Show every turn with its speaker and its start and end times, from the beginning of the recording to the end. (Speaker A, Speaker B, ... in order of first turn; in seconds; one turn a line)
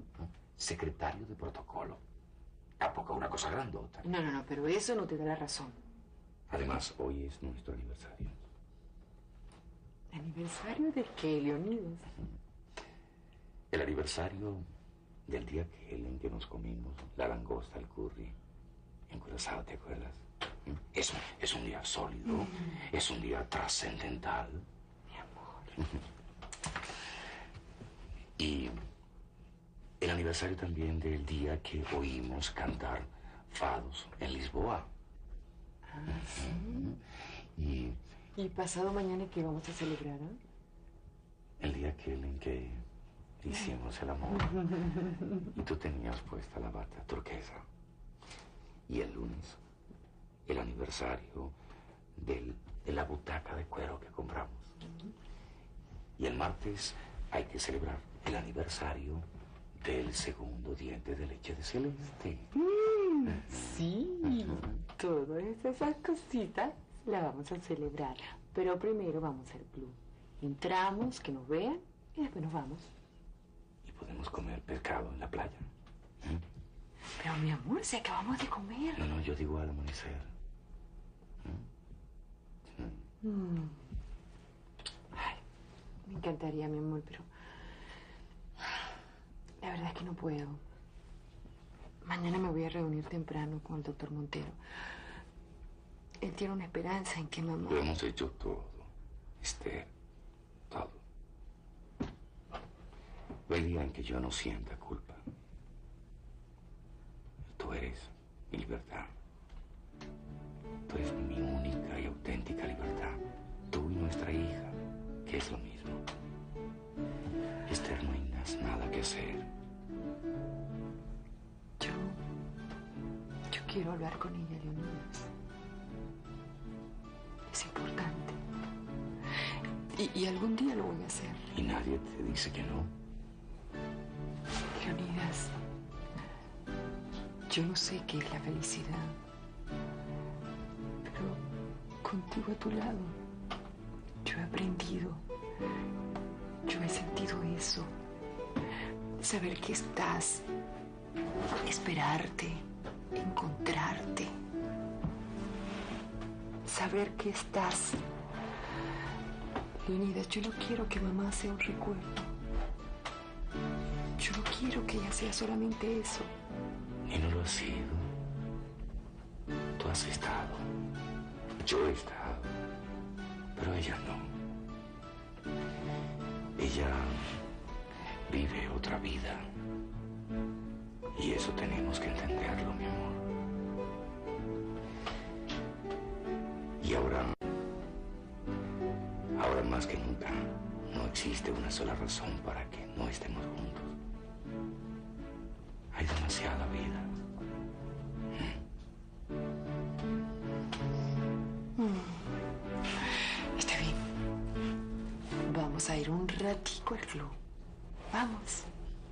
Speaker A: 0.5-2.0
Speaker A: 2.8-4.1
Speaker B: 4.0-5.8
Speaker A: 6.5-8.4
Speaker B: 10.1-12.2
Speaker A: 13.7-14.6
Speaker A: 15.3-18.4
Speaker A: 19.1-20.2
Speaker A: 20.8-24.7
Speaker B: 25.2-25.8
Speaker A: 28.4-28.8
Speaker A: 30.0-34.9
Speaker B: 35.9-36.9
Speaker A: 36.1-37.0
Speaker A: 37.6-38.0
Speaker B: 38.4-40.4
Speaker A: 41.6-42.8
Speaker A: 43.4-47.7
Speaker A: 48.9-49.6
Speaker A: 50.5-51.5
Speaker A: 52.2-54.7
Speaker A: 56.2-62.5
Speaker B: 62.5-72.9
Speaker A: 63.3-64.7
Speaker A: 73.8-75.7
Speaker B: 77.2-79.1
Speaker A: 79.0-80.3
Speaker B: 83.2-83.8
Speaker B: 85.1-85.4
Speaker B: 86.0-87.3
Speaker B: 89.6-90.6
Speaker B: 92.0-94.6
Speaker B: 96.2-97.9
Speaker A: 97.7-98.9
Speaker A: 99.4-99.9
Speaker A: 100.7-101.0
Speaker A: 103.5-105.2
Speaker A: 107.5-109.1
Speaker A: 110.9-116.0
Speaker A: 117.7-119.5
Speaker B: 121.8-122.2
Speaker B: 123.5-125.3
Speaker B: 127.5-128.4
Speaker B: 129.9-131.5
Speaker A: 131.5-132.9
Speaker B: 134.7-135.6
Speaker B: 137.5-139.2
Speaker B: 141.0-141.4
Speaker B: 142.0-143.2
Speaker B: 144.2-145.3
Speaker B: 146.7-147.9
Speaker B: 149.2-150.5
Speaker B: 151.6-154.3
Speaker B: 156.7-158.0
Speaker B: 159.8-162.3
Speaker B: 164.2-166.3
Speaker A: 167.1-168.2
Speaker A: 169.8-170.7
Speaker A: 171.6-172.6
Speaker A: 173.6-174.4
Speaker A: 176.6-177.4
Speaker A: 178.3-179.5
Speaker A: 181.2-183.2
Speaker A: 186.8-187.4
Speaker A: 189.3-194.0
Speaker A: 195.9-197.2
Speaker A: 198.3-198.6
Speaker B: 201.8-202.3
Speaker B: 203.0-204.0
Speaker B: 205.4-207.4
Speaker B: 208.1-208.7